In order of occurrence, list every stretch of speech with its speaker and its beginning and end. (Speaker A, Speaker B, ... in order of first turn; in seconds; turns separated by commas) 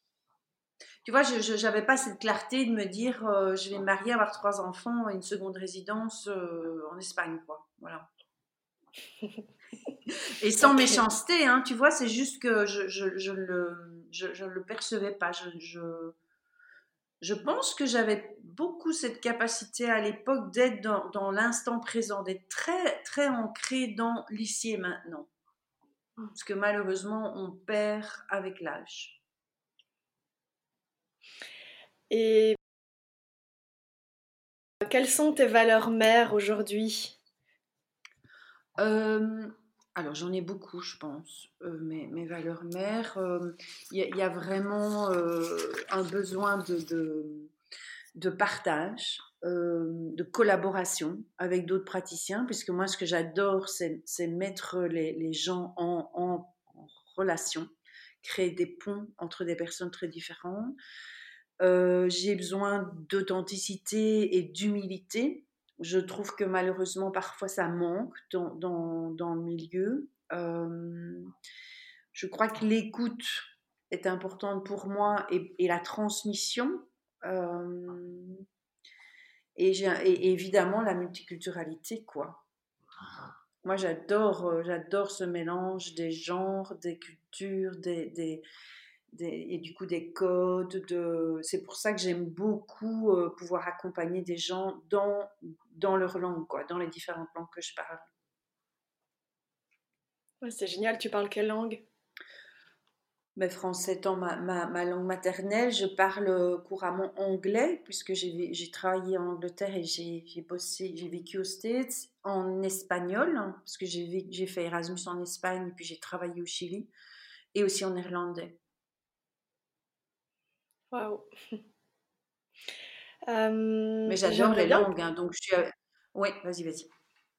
Speaker A: 1.1-8.1, Speaker A: 10.2-16.1, Speaker A: 17.2-25.3, Speaker A: 26.3-29.2, Speaker B: 32.1-32.6, Speaker B: 34.8-37.2, Speaker A: 38.8-47.5, Speaker A: 48.1-57.7, Speaker A: 58.2-60.8, Speaker A: 61.6-71.3, Speaker A: 72.1-78.4, Speaker A: 79.6-82.4, Speaker A: 83.6-88.4, Speaker A: 89.1-98.1, Speaker B: 100.4-101.8, Speaker A: 103.4-116.9, Speaker A: 117.5-118.6, Speaker B: 120.9-121.3, Speaker B: 123.3-124.9, Speaker A: 124.1-126.9